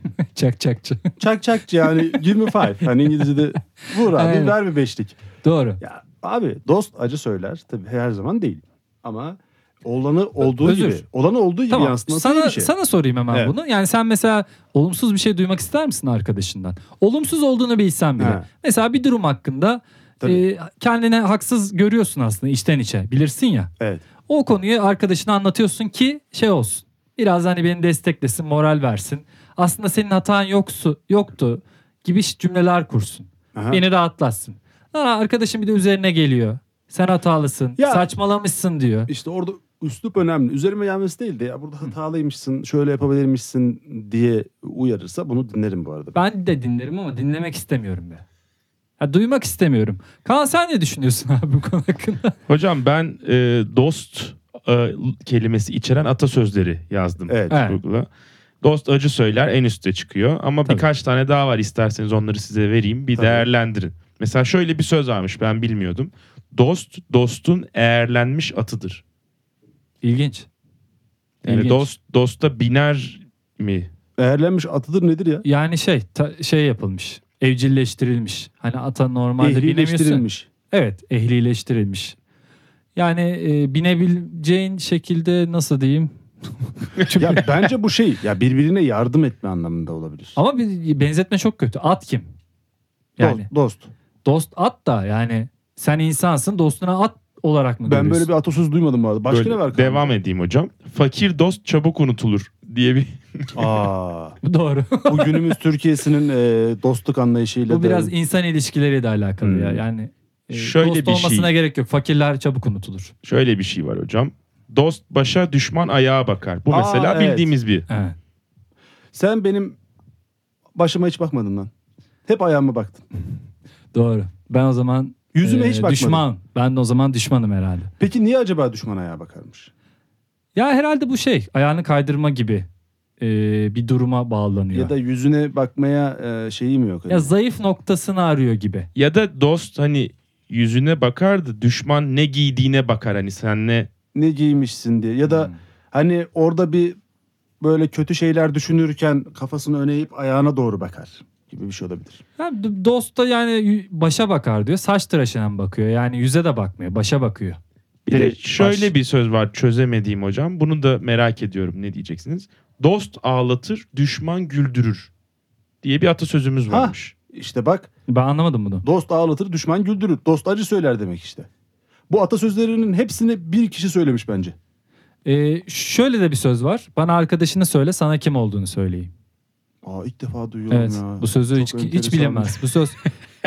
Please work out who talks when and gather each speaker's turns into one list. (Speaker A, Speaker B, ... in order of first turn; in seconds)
Speaker A: 0.2-1.1, 1.8-4.6, 5.4-5.8, 10.4-11.0, 11.7-23.7, 24.3-39.1, 46.1-48.2, 49.0-52.3, 57.5-57.8, 70.0-70.5, 71.5-71.9, 75.4-82.2, 83.0-86.1, 87.1-87.3, 90.3-92.3, 93.2-93.5, 94.2-98.3, 104.4-105.5, 107.7-113.1, 117.9-118.2, 123.9-127.9, 130.5-132.7, 133.2-134.9, 137.1-138.9, 145.3-145.5, 152.4-157.6, 158.1-158.9, 168.1-168.8, 175.2-179.1, 180.7-183.0
Speaker B: 1.2-5.2, 5.8-12.7, 18.2-18.4, 33.5-33.8, 37.8-38.1, 39.1-46.2, 57.3-57.6, 63.1-63.5, 74.2-75.4, 79.4-80.5, 87.1-90.4, 93.2-93.9, 97.8-100.2, 103.5-104.4, 105.1-108.1, 109.4-109.8, 116.7-117.6, 119.1-119.8, 120.7-121.7, 122.2-123.0, 125.3-126.2, 128.0-129.7, 134.7-137.3, 144.1-147.0, 147.6-152.2, 158.6-158.9, 166.7-167.9, 168.8-171.5, 172.1-174.5, 179.8-182.6
Speaker C: 52.5-58.1, 58.6-69.0, 71.4-73.9, 99.3-103.7, 110.5-111.5, 113.2-117.8, 138.9-143.9, 158.1-165.1, 165.8-167.1